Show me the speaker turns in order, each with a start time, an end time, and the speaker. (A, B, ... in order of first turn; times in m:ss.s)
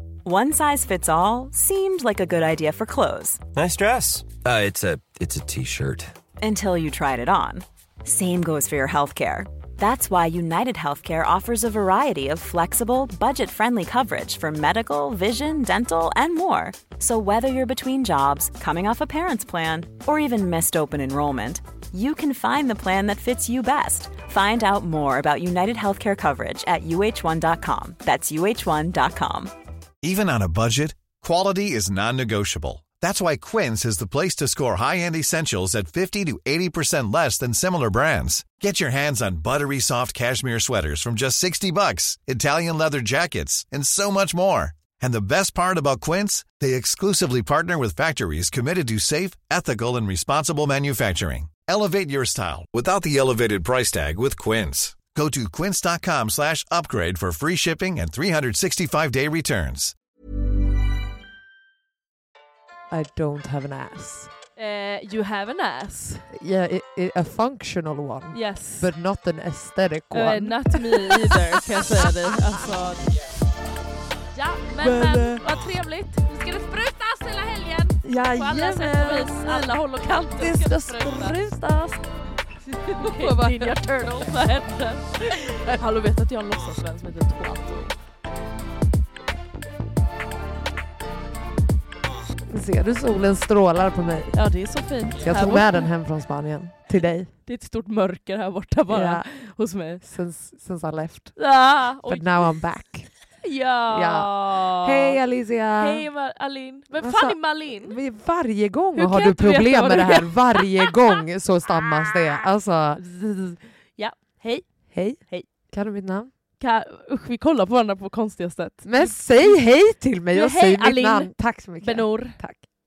0:00.2-0:03.4 A
0:03.5-0:06.1 B
0:06.4-0:29.5 A
0:30.0-1:00.0 C
1:02.9-1:04.3 D
1:04.6-1:06.3 E
1:06.3-1:11.7 D
1:08.3-1:08.9 E
1:10.1-1:13.1 E
1:14.3-1:22.0 E
1:14.8-1:15.4 D
1:18.0-1:19.7 D
1:20.4-1:22.0 D
1:22.6-1:28.0 E
1:23.0-1:23.8 D
1:32.5-1:34.4 D
1:34.3-1:35.9 E
1:35.2-1:37.3 D
1:37.5-1:40.0 E
1:38.9-1:39.2 D
1:40.0-1:41.4 D
1:41.4-1:42.5 E
1:42.1-1:43.1 D
1:43.4-1:45.2 E
1:43.9-1:44.3 D
1:44.8-1:46.1 D
1:45.8-1:48.0 E
1:47.0-1:53.0 D
1:49.0-1:51.0 E
1:52.2-1:52.4 E
1:53.0-1:54.7 E
1:54.9-1:56.3 D
1:56.6-1:59.6 E
1:58.8-2:02.6 D
2:00.3-2:01.3 E
2:01.8-2:02.4 E